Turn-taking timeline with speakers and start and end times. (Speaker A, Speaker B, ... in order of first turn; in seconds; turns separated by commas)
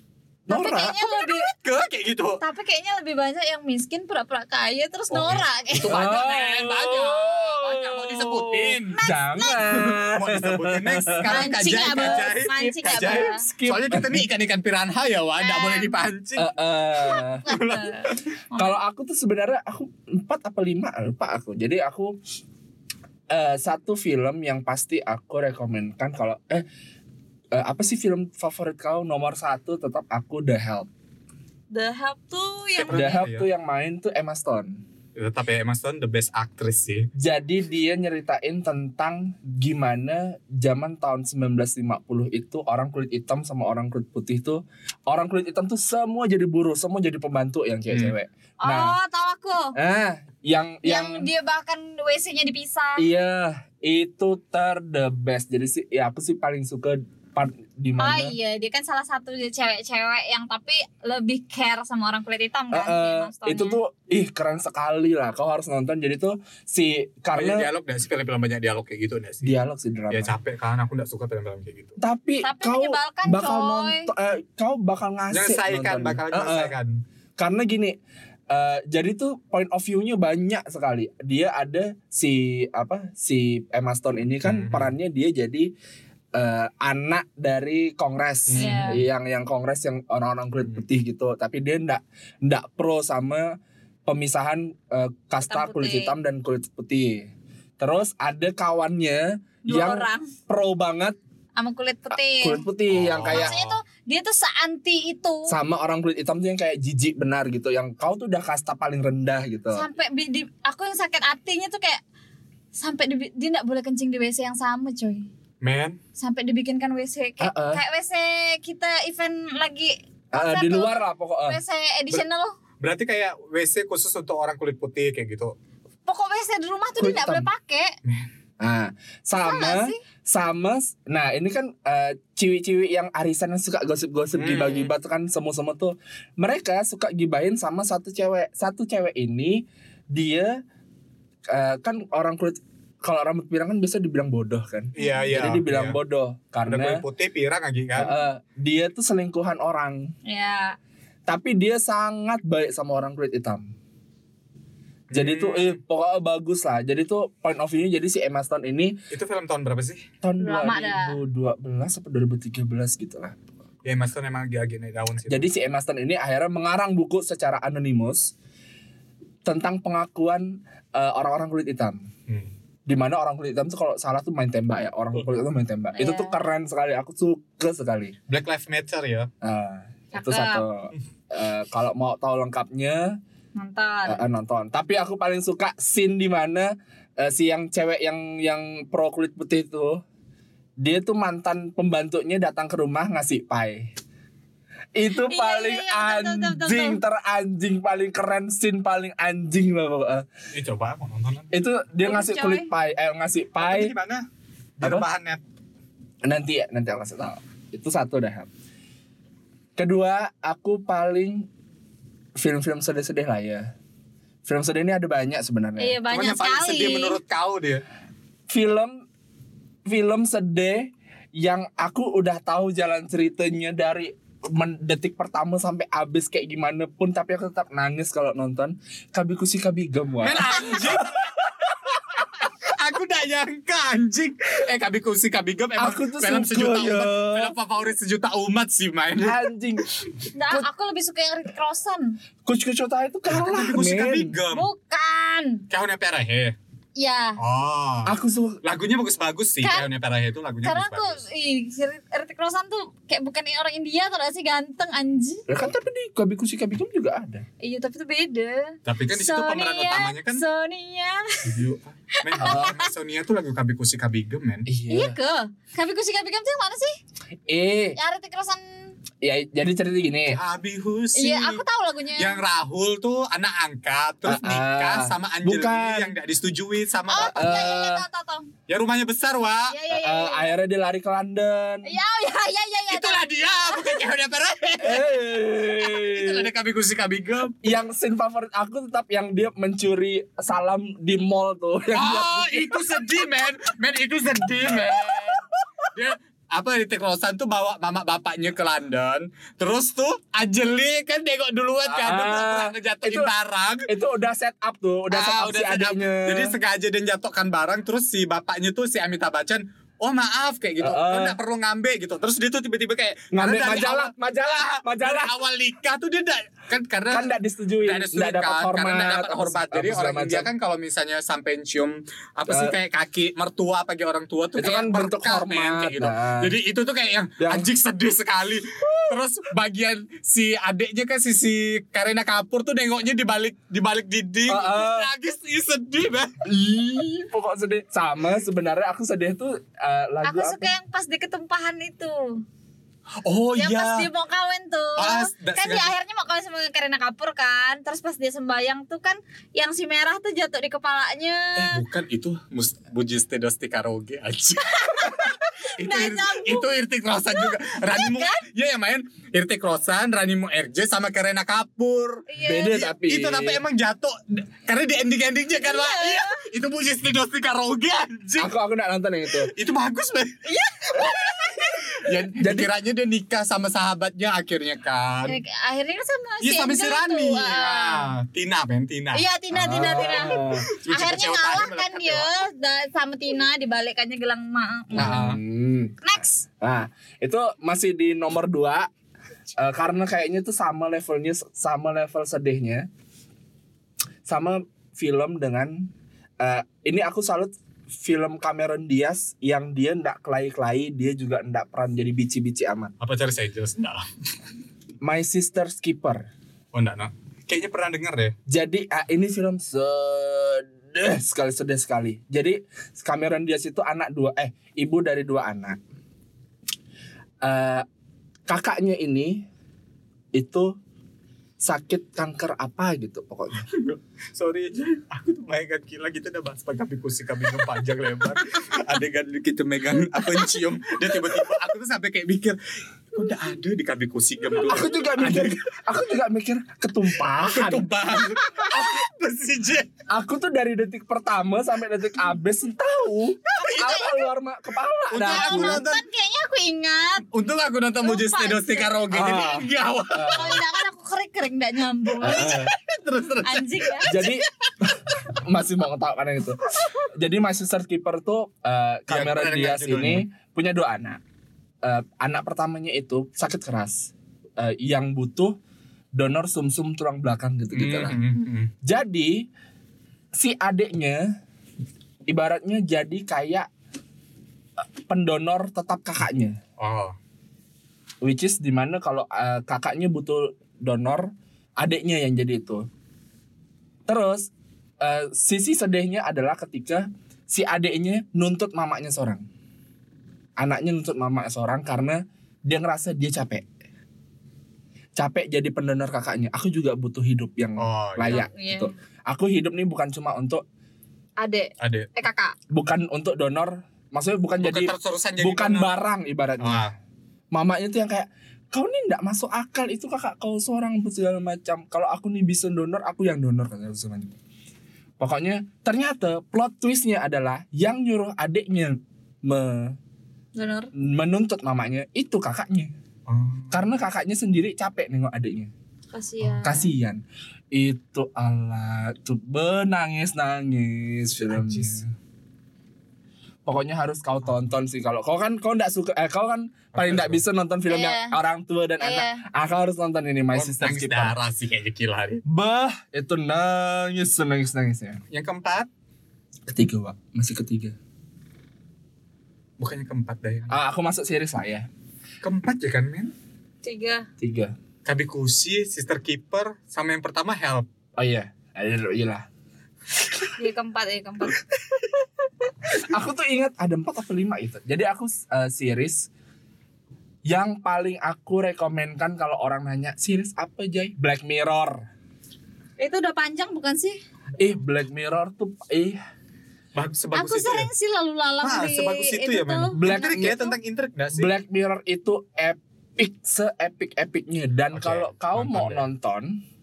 Speaker A: 0.5-1.0, Speaker B: 0.5-1.5, Speaker C: 1.1-2.4, Speaker B: 2.4-6.0, Speaker C: 5.1-9.0, Speaker A: 5.9-12.2, Speaker B: 8.9-9.7, Speaker C: 9.6-16.5, Speaker B: 11.3-13.3, Speaker A: 12.9-14.3, Speaker B: 15.4-16.0, Speaker A: 16.4-17.4, Speaker B: 17.0-18.8, Speaker C: 17.5-17.9, Speaker A: 18.6-22.2, Speaker A: 23.3-26.6, Speaker A: 27.5-30.9, Speaker B: 31.7-33.3, Speaker C: 32.8-33.5, Speaker A: 32.9-34.8, Speaker C: 35.2-37.1, Speaker A: 37.2-49.0, Speaker B: 48.6-49.8, Speaker A: 49.8-51.3, Speaker B: 50.8-53.1, Speaker A: 53.0-58.4, Speaker B: 58.0-63.8, Speaker A: 62.7-67.7, Speaker C: 67.3-69.5, Speaker A: 69.4-70.3, Speaker C: 70.1-72.0, Speaker A: 72.0-76.8, Speaker B: 72.4-74.1, Speaker C: 75.3-77.0, Speaker A: 77.4-78.0, Speaker A: 78.5-85.7, Speaker C: 84.5-84.9, Speaker A: 86.3-101.2, Speaker C: 88.5-89.0, Speaker B: 88.6-89.0, Speaker B: 95.5-96.1, Speaker B: 99.7-100.3, Speaker B: 101.6-102.6, Speaker A: 102.1-103.5, Speaker C: 102.9-103.8, Speaker B: 103.3-105.5, Speaker A: 105.5-109.9, Speaker B: 109.7-112.0, Speaker B: 112.8-115.3, Speaker C: 115.6-116.0, Speaker B: 116.2-122.5, Speaker A: 117.4-117.8, Speaker A: 120.3-121.6, Speaker C: 122.8-125.5, Speaker B: 126.1-128.0, Speaker A: 127.0-127.5, Speaker A: 128.6-140.6, Speaker B: 129.4-130.0, Speaker C: 134.3-134.9, Speaker A: 141.5-147.0, Speaker C: 144.9-145.9, Speaker B: 145.0-145.3, Speaker C: 146.7-148.1, Speaker A: 147.9-150.1, Speaker B: 150.3-150.8, Speaker A: 151.3-153.7, Speaker C: 155.1-155.8, Speaker A: 155.1-159.0, Speaker C: 159.1-160.0, Speaker A: 160.2-163.4, Speaker B: 160.4-161.2, Speaker C: 163.8-165.5, Speaker A: 165.3-168.3, Speaker A: 169.4-172.1, Speaker A: 172.9-178.2, Speaker B: 175.9-176.4, Speaker C: 178.3-179.3, Speaker A: 179.4-183.2, Speaker B: 180.1-180.7, Speaker B: 183.6-184.2, Speaker A: 184.1-190.0, Speaker A: 190.8-193.9, Speaker A: 194.9-200.3, Speaker B: 195.3-197.0, Speaker C: 200.5-201.5, Speaker A: 201.5-203.9, Speaker B: 202.0-202.7, Speaker C: 203.6-204.3, Speaker C: 204.8-205.4, Speaker A: 204.8-205.1, Speaker A: 206.2-208.5, Speaker A: 209.8-211.5, Speaker A: 212.4-213.7, Speaker A: 214.4-216.0, Speaker B: 215.8-217.2, Speaker C: 216.1-217.8, Speaker A: 218.5-219.1, Speaker A: 219.9-231.1, Speaker C: 230.2-239.4, Speaker A: 235.8-237.5, Speaker A: 239.2-239.9, Speaker B: 240.3-242.2, Speaker A: 242.4-244.3, Speaker C: 243.3-244.7, Speaker B: 244.5-245.6, Speaker C: 245.7-246.6, Speaker B: 247.0-247.4, Speaker C: 247.4-251.2, Speaker A: 248.1-248.6, Speaker B: 249.6-249.9, Speaker B: 250.6-255.4, Speaker A: 255.5-257.4, Speaker B: 257.6-261.6, Speaker C: 258.9-260.4, Speaker C: 261.5-264.7, Speaker B: 262.1-262.8, Speaker A: 262.4-262.8, Speaker A: 264.7-265.2, Speaker B: 264.9-267.0, Speaker A: 267.5-268.0, Speaker B: 267.9-268.9, Speaker A: 269.2-270.4, Speaker C: 270.3-271.6, Speaker B: 271.2-272.4, Speaker C: 272.2-277.6, Speaker A: 274.2-276.1, Speaker B: 277.1-278.5, Speaker A: 277.4-278.1, Speaker C: 278.7-279.7, Speaker B: 279.7-280.5, Speaker A: 279.9-281.9, Speaker B: 281.8-284.1, Speaker C: 282.9-285.1, Speaker A: 284.8-286.5, Speaker C: 285.8-287.6, Speaker A: 287.6-293.3, Speaker C: 291.9-303.9, Speaker A: 294.7-295.4, Speaker A: 301.9-303.3, Speaker A: 303.9-306.6, Speaker C: 305.1-317.3, Speaker A: 310.8-311.4, Speaker A: 313.3-315.3, Speaker A: 317.1-320.5, Speaker C: 317.8-336.3, Speaker A: 322.5-322.8, Speaker A: 324.6-326.6, Speaker A: 327.4-327.7, Speaker A: 334.5-335.1, Speaker A: 336.4-340.7, Speaker B: 340.2-342.4, Speaker C: 343.2-344.1, Speaker B: 343.6-351.8, Speaker C: 345.0-345.9, Speaker C: 351.6-368.5, Speaker B: 354.7-356.7, Speaker B: 357.3-358.4, Speaker B: 362.3-362.9, Speaker A: 362.4-363.6, Speaker B: 365.6-366.4, Speaker A: 368.4-369.5, Speaker C: 369.4-370.4, Speaker B: 370.4-371.7, Speaker C: 370.9-375.4, Speaker A: 372.4-372.7, Speaker B: 375.3-378.1, Speaker C: 376.4-379.2, Speaker B: 379.1-385.3, Speaker A: 379.5-380.6, Speaker C: 379.8-382.3, Speaker A: 384.9-386.0, Speaker C: 385.0-385.4, Speaker B: 386.0-386.4, Speaker A: 386.6-388.9, Speaker A: 389.6-392.9, Speaker A: 394.3-395.9, Speaker A: 396.4-402.9, Speaker C: 403.0-404.1, Speaker A: 405.0-406.3, Speaker C: 406.7-408.4, Speaker A: 408.5-415.8, Speaker A: 417.4-417.9, Speaker A: 418.5-419.5, Speaker A: 420.3-420.7, Speaker A: 421.6-423.7, Speaker C: 423.6-432.6, Speaker C: 433.1-435.6, Speaker A: 434.6-437.9, Speaker C: 437.5-439.9, Speaker B: 438.4-438.8, Speaker A: 440.1-445.8, Speaker C: 443.6-444.1, Speaker B: 443.6-444.1, Speaker C: 445.1-446.0, Speaker B: 445.3-447.2, Speaker C: 447.3-450.6, Speaker B: 448.0-449.1, Speaker A: 449.1-450.6, Speaker B: 450.3-452.6, Speaker A: 452.2-452.7, Speaker C: 452.2-454.3, Speaker B: 453.4-454.2, Speaker A: 454.0-461.2, Speaker C: 459.1-460.3, Speaker A: 461.8-465.6, Speaker A: 466.1-468.2, Speaker C: 467.7-468.7, Speaker A: 468.8-469.5, Speaker A: 470.3-471.3, Speaker A: 472.3-473.7, Speaker A: 475.1-476.6, Speaker C: 476.8-477.1, Speaker A: 478.2-482.9, Speaker A: 484.1-484.5, Speaker A: 485.0-489.4, Speaker A: 490.6-493.6, Speaker A: 495.2-500.6, Speaker C: 497.8-498.4, Speaker B: 498.2-498.9, Speaker B: 501.4-502.6, Speaker C: 501.8-502.1, Speaker A: 502.7-506.9, Speaker C: 504.6-505.9, Speaker C: 506.6-506.9, Speaker A: 507.5-514.3, Speaker A: 515.2-520.0, Speaker B: 520.5-520.9, Speaker A: 521.0-522.9, Speaker C: 523.3-523.8, Speaker A: 523.7-525.7, Speaker B: 526.1-526.9, Speaker A: 526.4-532.0, Speaker C: 531.5-532.0, Speaker A: 533.7-541.4, Speaker C: 536.9-537.4, Speaker B: 537.9-538.4, Speaker B: 539.0-539.4, Speaker C: 540.5-542.4, Speaker A: 542.5-545.2, Speaker C: 545.3-545.9, Speaker A: 546.7-547.9, Speaker C: 549.8-550.8, Speaker A: 550.7-551.9, Speaker C: 552.4-553.3, Speaker B: 553.8-554.3, Speaker A: 554.4-554.7, Speaker C: 555.0-557.9, Speaker A: 558.2-559.5, Speaker B: 560.6-561.6, Speaker A: 562.9-566.3, Speaker A: 567.5-572.0, Speaker B: 573.0-574.2, Speaker A: 574.6-576.2, Speaker C: 577.0-577.9, Speaker B: 577.3-580.6, Speaker C: 578.6-581.5, Speaker A: 580.0-580.7, Speaker A: 581.4-586.6, Speaker C: 584.9-586.1